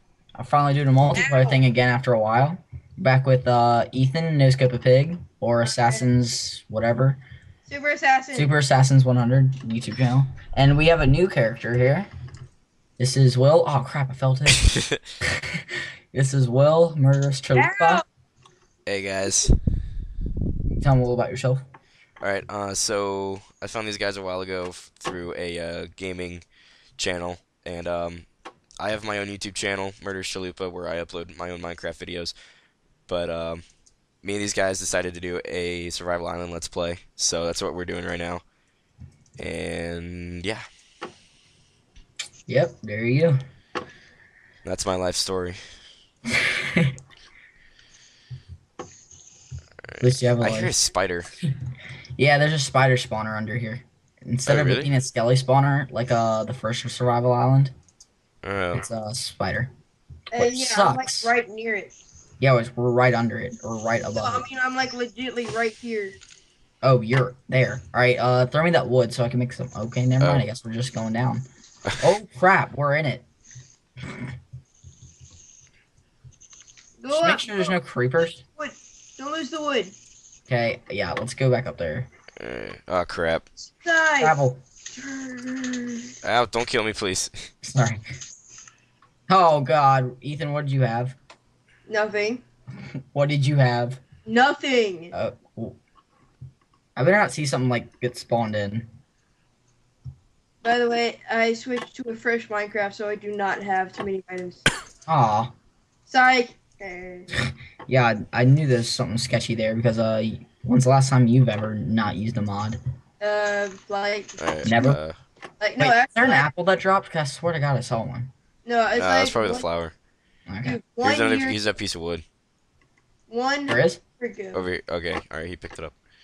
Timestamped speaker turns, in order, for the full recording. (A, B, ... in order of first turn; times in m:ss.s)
0:00.4-0:07.2 A
0:01.1-0:01.6 B
0:05.6-0:06.1 B
0:07.6-0:08.5 B
0:08.3-0:12.1 A
0:13.0-0:14.6 A
0:14.7-0:15.0 C
0:16.1-0:18.0 A
0:17.5-0:18.0 B
0:18.8-0:19.5 C
0:20.8-0:21.6 A
0:22.2-0:26.4 C
0:27.0-0:28.2 C
0:28.8-0:32.3 C
0:33.1-0:33.6 C
0:34.2-0:38.4 C
0:39.4-0:40.6 C
0:42.5-0:43.4 A
0:44.6-0:45.6 C
0:49.9-0:51.3 C
0:50.0-0:50.8 A
0:52.2-0:57.7 A
0:54.5-0:54.9 C
0:58.4-0:58.8 C
0:58.8-0:59.7 A
1:00.3-1:01.9 B
1:00.4-1:01.3 A
1:02.4-1:04.4 A
1:04.2-1:06.2 B
1:06.8-1:11.4 A
1:10.2-1:10.4 C
1:12.0-1:13.2 A
1:17.0-1:17.8 B
1:17.1-1:18.4 A
1:18.6-1:19.9 B
1:20.5-1:22.1 A
1:22.4-1:23.4 C
1:23.6-1:24.3 B
1:24.2-1:24.6 A
1:24.9-1:26.1 B
1:26.2-1:27.5 C
1:27.6-1:28.0 A
1:29.3-1:31.2 A
1:31.9-1:32.4 B
1:33.1-1:34.0 A
1:34.2-1:35.1 B
1:35.1-1:35.8 A
1:37.0-1:38.9 A
1:40.6-1:44.6 B
1:45.1-1:45.5 A
1:46.1-1:47.3 B
1:47.9-1:52.8 A
1:53.2-1:54.8 B
1:54.4-1:55.2 C
1:54.6-1:55.0 A
1:55.6-1:56.5 B
1:55.8-1:58.3 A
1:58.6-1:59.6 B
1:58.9-1:59.9 C
2:00.5-2:00.8 A
2:00.6-2:01.6 B
2:01.0-2:02.2 C
2:03.3-2:04.6 B
2:03.7-2:04.0 A
2:04.5-2:05.9 C